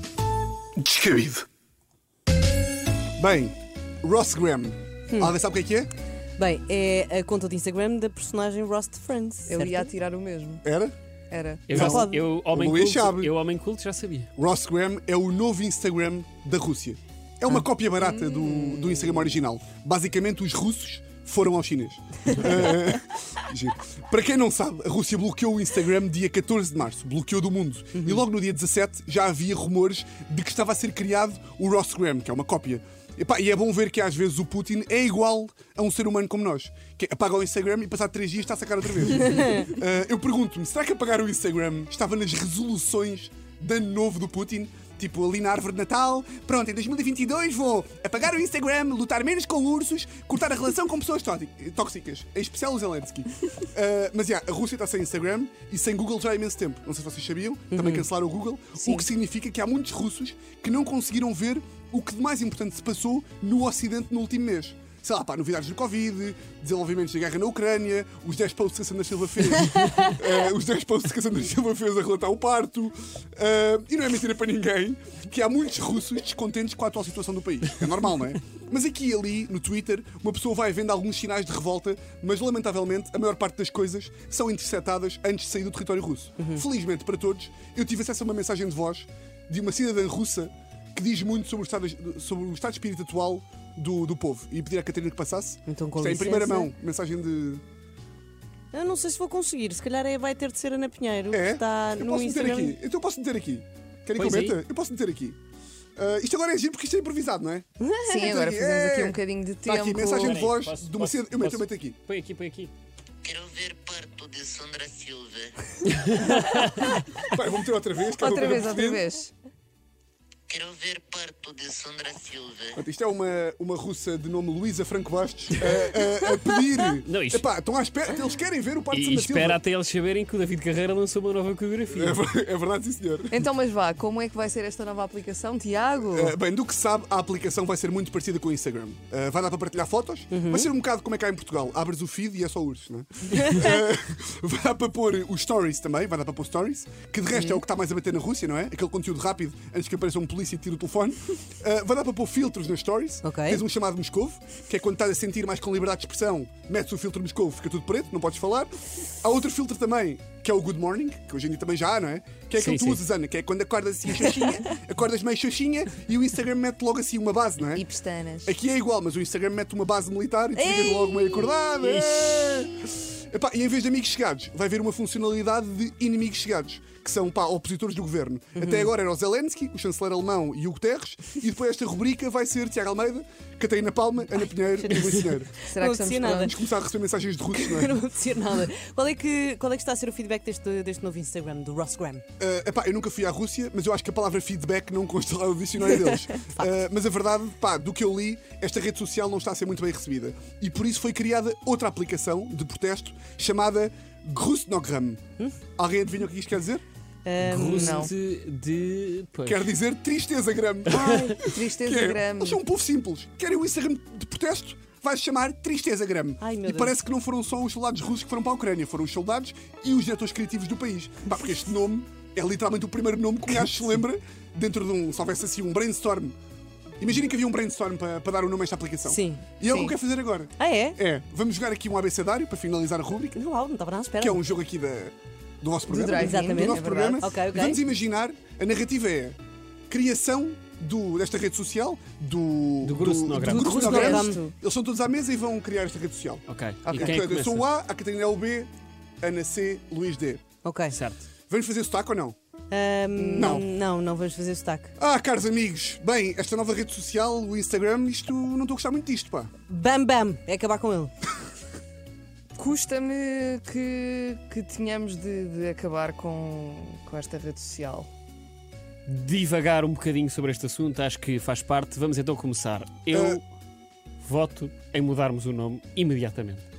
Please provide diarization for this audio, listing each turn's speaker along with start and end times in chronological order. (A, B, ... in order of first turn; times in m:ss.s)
0:00.8-0:01.4 A
0:03.2-0:05.9 A
0:06.4-0:09.5 B
0:09.4-0:10.6 C
0:10.6-0:11.0 A
0:11.3-0:11.9 C
0:11.7-0:14.3 D
0:11.7-0:13.3 A
0:14.4-1:37.6 A
0:18.1-0:19.1 C
1:35.7-1:36.6 B
1:38.7-1:42.6 B
1:41.3-1:45.4 A
1:44.2-1:44.6 D
1:46.0-1:47.6 A
1:48.0-1:50.5 C
1:48.2-1:52.0 A
1:50.1-1:52.7 D
1:53.2-1:55.6 E
1:55.9-1:57.3 D
1:57.2-1:59.0 A
1:58.2-1:59.3 C
2:00.5-2:02.8 E
2:02.7-2:09.6 A
2:06.9-2:07.4 D
2:08.9-2:12.2 D
2:11.9-2:13.4 A
2:13.3-2:16.3 C
2:16.1-2:47.8 A
2:42.6-2:43.0 D
2:47.8-2:48.5 C
2:48.4-3:08.0 A
2:51.8-2:52.7 D
3:05.1-3:06.5 C
3:07.7-3:12.2 B
3:12.4-3:25.2 A
3:25.8-3:26.8 A
3:27.2-3:27.7 B
3:27.4-3:29.6 D
3:27.7-3:28.1 C
3:29.4-3:46.3 A
3:30.9-3:31.2 D
3:31.0-3:32.6 C
3:47.0-3:53.4 A
3:49.1-3:49.4 B
3:49.6-3:49.9 C
3:50.6-3:50.9 B
3:53.3-3:54.3 B
3:54.2-3:59.4 A
3:55.9-3:57.3 C
3:56.2-3:57.7 B
3:59.9-4:08.7 A
4:02.8-4:04.2 D
4:03.4-4:04.5 C
4:06.5-4:07.7 D
4:06.9-4:07.1 C
4:09.2-4:10.4 A
4:10.6-4:10.9 B
4:10.9-4:11.2 D
4:11.5-4:12.4 A
4:12.7-4:14.9 B
4:13.2-4:13.6 C
4:13.3-4:13.6 A
4:15.0-4:19.5 A
4:19.7-4:21.1 B
4:22.6-4:28.1 C
4:29.1-4:33.4 D
4:33.1-4:33.4 A
4:34.2-4:36.6 D